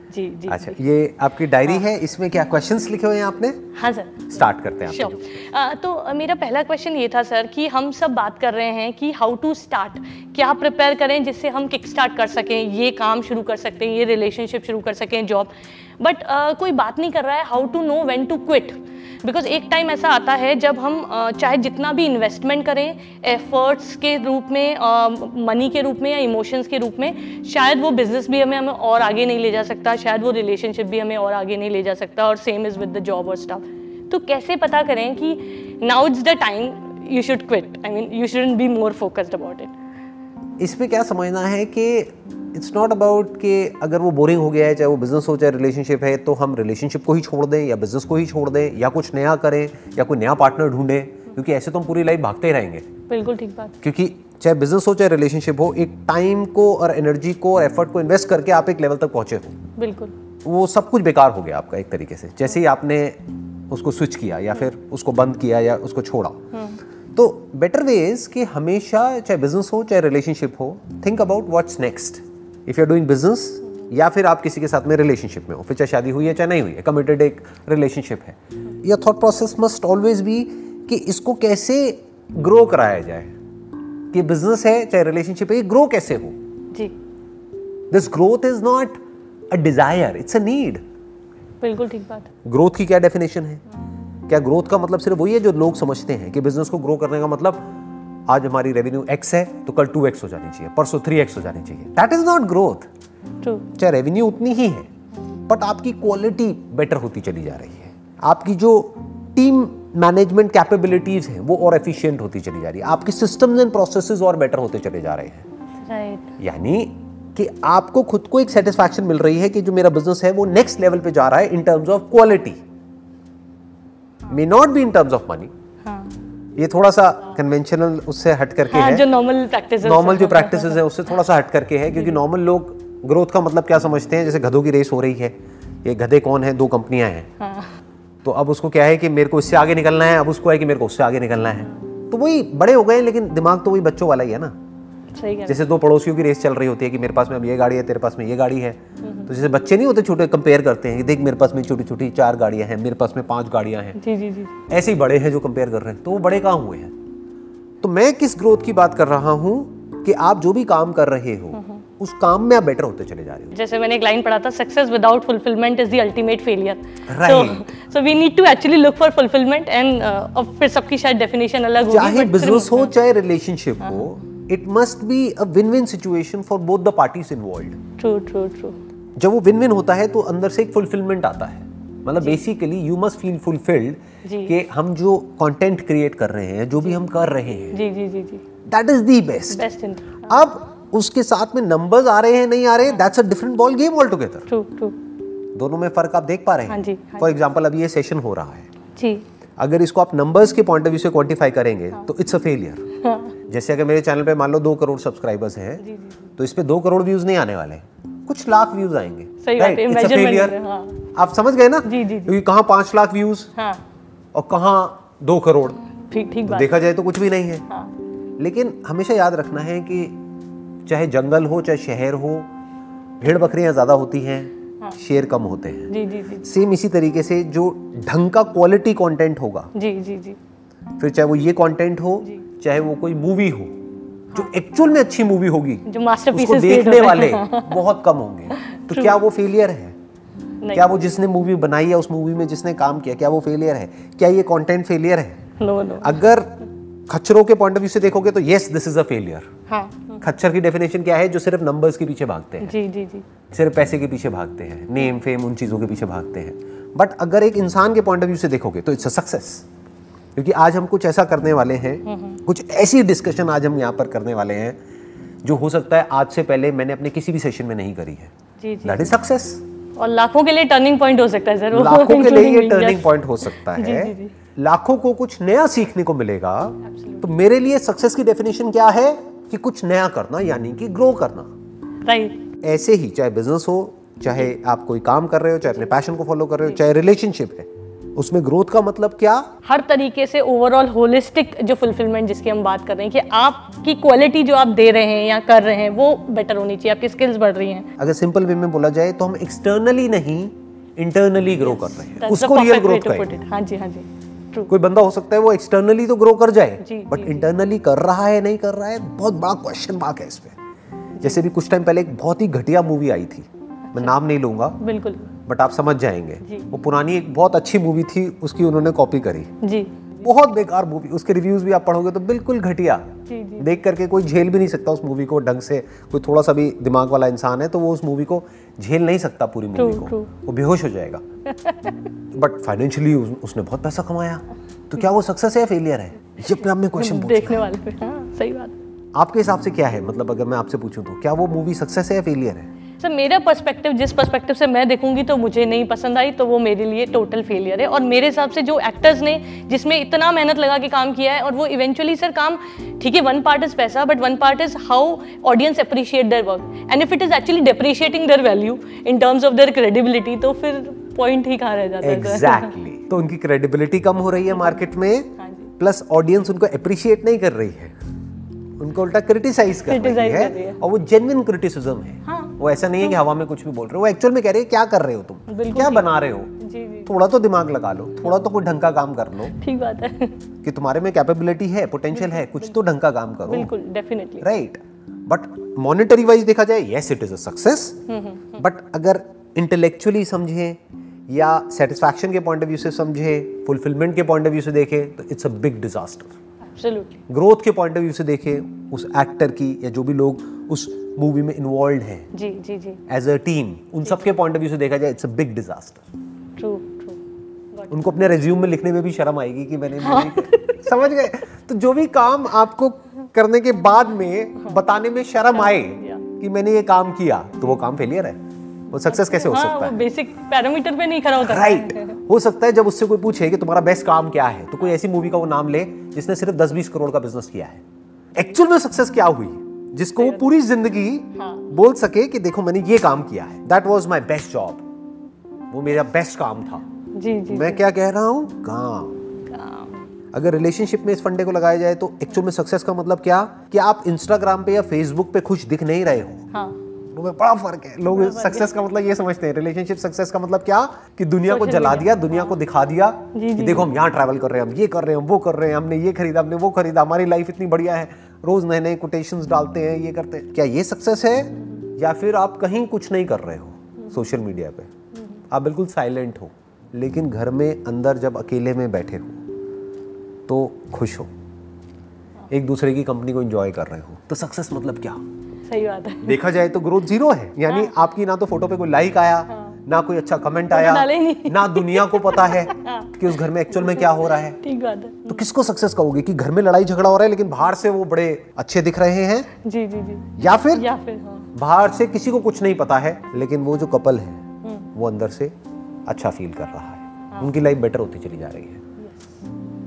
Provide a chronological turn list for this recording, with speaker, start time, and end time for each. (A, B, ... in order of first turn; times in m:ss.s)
0:00.1-0:00.8 A
0:00.5-0:03.6 B
0:03.8-0:39.7 A
0:04.3-0:05.4 B
0:40.6-0:52.8 B
0:53.1-0:53.8 A
0:53.8-0:59.6 B
0:59.8-1:00.1 A
1:00.4-1:03.2 B
1:03.7-1:06.4 B
1:07.1-1:23.3 B
1:24.1-1:26.4 B
1:27.9-1:29.0 B
1:29.5-1:30.8 B
1:31.6-1:32.3 A
1:32.4-1:33.6 B
1:34.3-1:37.7 B
1:38.3-1:42.9 B
1:43.4-1:43.7 A
1:43.7-1:44.9 B
1:45.5-1:55.4 B
1:55.8-1:56.3 A
1:56.4-2:02.6 B
2:04.3-2:05.5 B
2:05.8-2:06.2 A
2:06.6-2:09.1 B
2:08.7-2:10.8 A
2:09.8-2:17.3 B
2:17.4-2:17.7 A
2:18.2-2:24.5 B
2:25.1-2:25.6 A
2:25.5-2:34.0 B
2:29.0-2:29.3 A
2:34.0-2:34.6 A
2:34.7-2:36.9 B
2:37.8-2:43.5 B
2:41.5-2:41.8 A
2:43.5-2:52.9 A
2:47.1-2:47.7 B
2:51.9-2:57.8 B
2:58.0-2:58.8 A
2:59.2-3:07.8 B
3:04.2-3:04.5 A
3:07.7-3:08.4 A
3:08.6-3:09.6 B
3:09.5-3:10.3 A
3:10.3-3:14.5 B
3:14.5-3:15.0 A
3:15.5-3:18.7 B
3:16.7-3:17.4 A
3:19.0-3:19.2 A
3:19.6-3:22.8 B
3:23.0-3:23.4 A
3:23.5-3:25.8 B
3:25.8-3:26.1 A
3:26.4-3:30.6 B
3:29.4-3:31.0 A
3:31.1-3:33.5 B
3:31.8-3:32.3 A
3:33.6-3:33.8 A
3:34.3-3:35.8 B
3:36.1-3:36.7 A
3:36.5-3:37.6 B
3:38.4-3:40.2 B
3:40.8-3:42.5 B
3:43.2-3:45.9 B
3:45.9-3:46.4 A
3:46.4-3:49.7 B
3:49.7-3:50.4 A
3:51.0-3:53.7 B
3:54.3-4:00.0 B
3:55.9-3:57.8 A
3:58.5-3:59.2 A
4:00.6-4:01.0 A
4:00.7-4:05.4 B
4:05.6-4:06.2 A
4:06.0-4:06.5 B
4:07.1-4:09.5 B
4:09.7-4:10.2 A
4:10.2-4:12.7 B
4:12.6-4:13.2 A
4:13.5-4:19.6 B
4:20.3-4:24.8 B
4:22.0-4:22.4 A
4:25.4-4:28.3 B
4:28.6-4:29.1 A
4:28.8-4:29.6 B
4:30.0-4:34.3 A
4:31.7-4:41.5 B
4:36.8-4:37.2 A
4:42.0-4:42.4 A
4:42.6-4:49.5 B
4:49.6-4:57.9 A
4:58.0-5:03.4 B
5:01.7-5:04.7 A
5:04.7-5:10.6 B
5:06.8-5:07.5 A
5:11.2-5:14.8 B
5:13.9-5:14.1 A
5:14.8-5:15.3 A
5:15.4-5:19.5 B
5:16.4-5:16.7 A
5:19.6-5:20.1 A
5:20.2-5:31.2 B
5:23.3-5:23.7 A
5:29.8-5:30.3 A
5:31.5-5:32.1 A
5:32.3-5:37.7 B
5:37.0-5:38.8 A
5:39.1-5:42.7 B
5:43.0-6:02.7 A
6:02.0-6:07.9 B
6:05.4-6:05.7 A
6:08.8-6:16.5 B
6:09.8-6:10.8 A
6:12.2-6:13.2 A
6:15.5-6:17.1 A
6:17.0-6:19.6 B
6:19.5-6:20.4 A
6:20.6-6:23.7 B
6:23.5-6:24.5 A
6:24.4-6:28.0 B
6:28.1-6:28.6 A
6:28.6-6:36.3 B
6:36.7-6:37.2 A
6:37.3-6:42.3 B
6:42.3-6:43.0 A
6:43.1-6:46.0 B
6:46.6-6:47.2 A
6:47.9-6:58.4 B
6:50.0-6:50.8 A
6:55.6-6:56.2 A
6:58.9-7:00.0 B
6:59.0-7:02.2 A
7:01.4-7:07.8 B
7:08.3-7:14.8 B
7:11.4-7:11.7 A
7:15.7-7:16.8 B
7:17.1-7:17.8 A
7:17.5-7:19.2 B
7:19.5-7:20.0 A
7:20.3-7:26.4 B
7:26.5-7:26.8 A
7:27.1-7:44.9 B
7:28.1-7:28.7 A
7:31.4-7:32.5 A
7:33.3-7:33.9 A
7:45.5-7:49.4 B
7:50.5-7:51.3 B
7:52.5-7:55.2 B
7:55.7-7:56.4 A
7:56.2-8:04.6 B
7:59.5-7:59.8 A
8:00.7-8:03.2 A
8:03.8-8:05.4 A
8:05.2-8:09.5 B
8:09.6-8:11.5 A
8:10.4-8:10.9 B
8:11.5-8:15.5 B
8:16.1-8:18.8 B
8:19.0-8:19.3 A